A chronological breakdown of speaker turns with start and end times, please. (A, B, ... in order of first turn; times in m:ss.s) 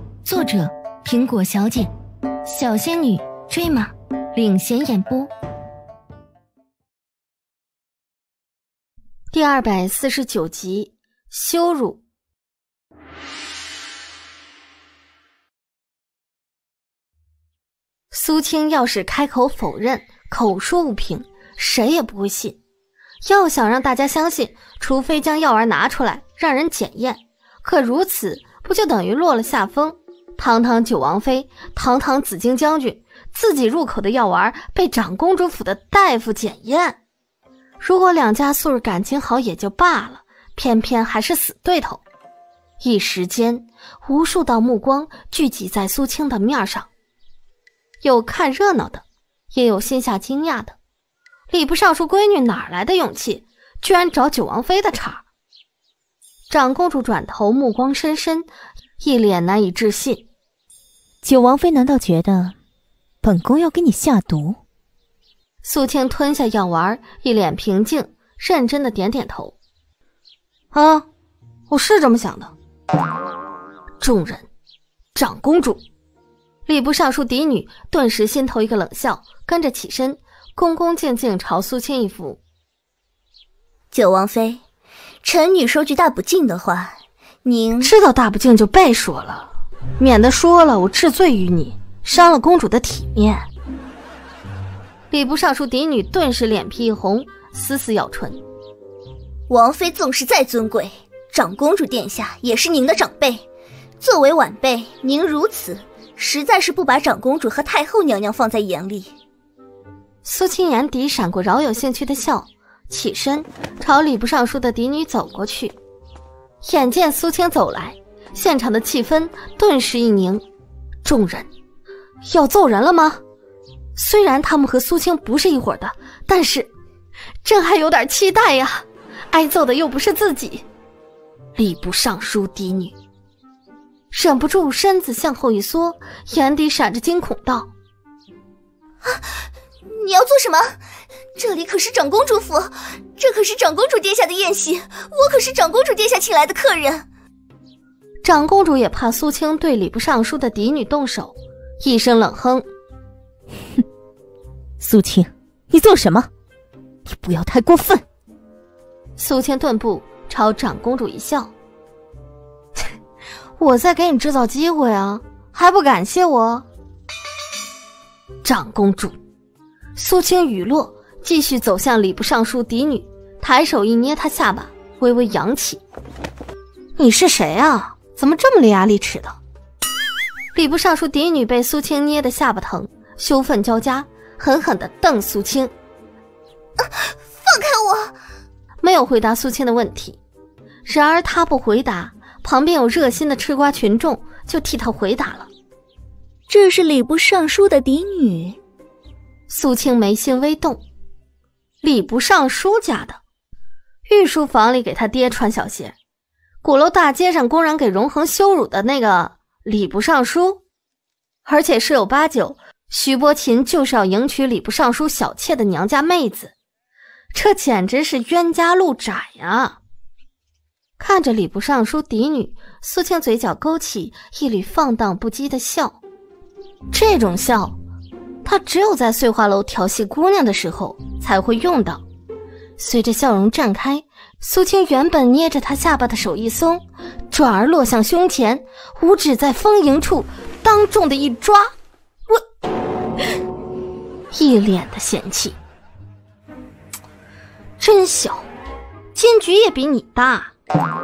0:00.2-0:01.9 A
0:02.4-0:05.3 A
0:09.3-0:12.0 A
0:18.1-0:22.6 A
0:23.2-0:37.0 A
0:37.8-0:42.0 A
0:42.8-0:46.9 A
0:48.0-0:50.8 A
0:51.5-0:55.2 A
0:56.5-0:58.5 A
0:59.0-1:00.2 A
1:01.2-1:02.5 B
1:03.2-1:04.6 B
1:05.6-1:09.6 A
1:10.7-1:11.1 A
1:11.7-1:12.5 A
1:14.0-1:14.5 A
1:15.1-1:15.8 A
1:16.6-1:22.4 A
1:23.9-1:24.6 C
1:25.2-1:27.9 C
1:27.8-1:33.4 A
1:35.1-1:38.4 A
1:39.5-1:43.4 C
1:44.0-1:49.1 C
1:50.2-1:55.7 A
1:56.6-2:00.4 A
2:01.0-2:01.5 A
2:02.2-2:03.2 A
2:04.0-2:06.7 A
2:07.4-2:10.6 A
2:11.6-2:12.9 A
2:14.1-2:17.7 A
2:19.8-2:20.8 C
2:21.4-2:27.0 C
2:28.2-2:32.6 A
2:34.8-2:36.3 B
2:37.1-2:38.0 B
2:39.2-2:41.5 A
2:43.6-2:46.6 A
2:48.4-2:49.2 A
2:50.0-2:55.8 A
2:57.0-2:59.4 A
3:00.5-3:05.7 A
3:07.4-3:08.1 C
3:08.8-3:10.2 A
3:10.8-3:15.5 A
3:16.5-3:18.6 C
3:19.5-3:20.8 A
3:21.8-3:23.2 A
3:24.1-3:26.0 A
3:26.6-3:30.6 A
3:31.4-3:36.5 A
3:37.3-3:39.8 A
3:41.0-3:46.0 A
3:46.9-3:47.8 A
3:48.4-3:52.0 A
3:52.8-4:01.7 A
4:04.3-4:05.6 A
4:07.8-4:08.5 A
4:09.1-4:10.5 A